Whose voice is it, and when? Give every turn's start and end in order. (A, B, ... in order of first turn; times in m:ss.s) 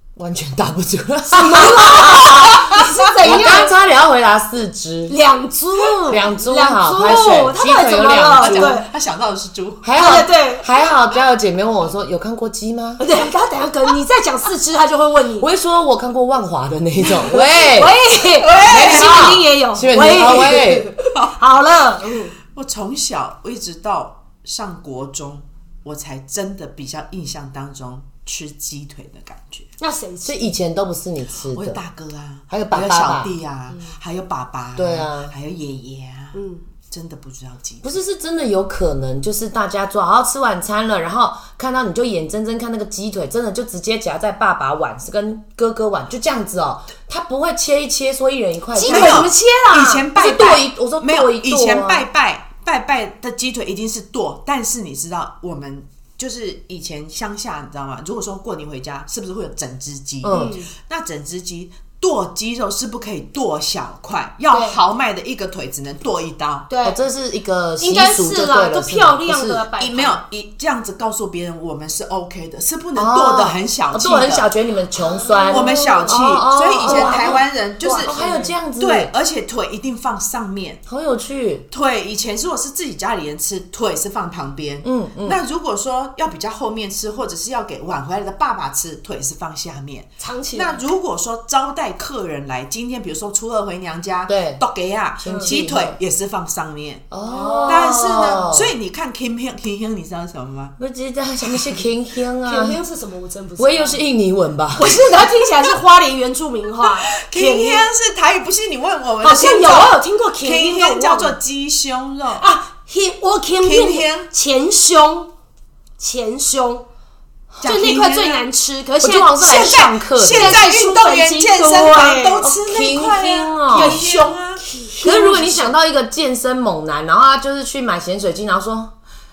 0:00.2-0:05.2 A
0:01.3-0:03.8 B
0:02.2-0:03.4 C
0:05.1-0:08.9 B
0:06.1-0:08.8 A
0:08.3-0:10.0 C
0:09.8-0:13.0 A
0:10.0-0:10.7 B
0:13.0-0:15.5 B
0:15.4-0:18.0 A
0:17.1-0:22.3 B
0:18.3-0:19.4 C
0:18.6-0:20.9 A
0:21.1-0:21.4 C
0:22.4-0:29.7 C
0:29.8-0:30.5 B
0:30.2-0:31.8 A
0:31.5-0:38.0 C
0:32.5-0:33.3 A
0:33.7-0:34.0 B
0:34.8-0:35.3 A
0:36.3-0:36.6 B
0:37.8-0:49.3 A
0:48.8-0:50.1 B
0:48.9-1:06.7 C
0:50.1-0:52.1 A
1:00.2-1:00.6 A
1:00.3-1:00.7 B
1:04.5-1:04.8 B
1:06.7-1:07.0 B
1:06.8-1:09.6 A
1:07.8-1:10.2 B
1:09.8-1:14.5 C
1:13.0-1:17.4 A
1:15.0-1:16.2 B
1:15.5-1:18.2 C
1:16.8-1:18.5 B
1:18.0-1:19.1 A
1:18.8-1:20.8 C
1:20.9-1:21.6 A
1:21.7-1:37.1 C
1:24.8-1:25.4 A
1:30.2-1:30.8 B
1:34.3-1:34.6 A
1:35.2-1:36.0 A
1:35.2-1:35.5 B
1:37.1-1:38.7 A
1:37.2-1:38.5 B
1:37.6-1:40.8 C
1:40.8-1:42.8 A
1:41.4-1:41.8 C
1:42.4-1:44.0 B
1:43.6-1:45.0 A
1:44.8-1:47.9 B
1:46.8-1:52.5 C
1:49.2-1:51.4 B
1:52.4-1:55.3 B
1:53.6-1:54.3 C
1:56.0-1:56.9 B
1:57.6-1:58.5 C
1:57.6-1:59.6 B
1:59.0-2:00.6 A
1:59.4-2:04.6 C
2:00.3-2:02.6 B
2:02.6-2:04.0 A
2:03.7-2:05.8 B
2:05.0-2:08.9 A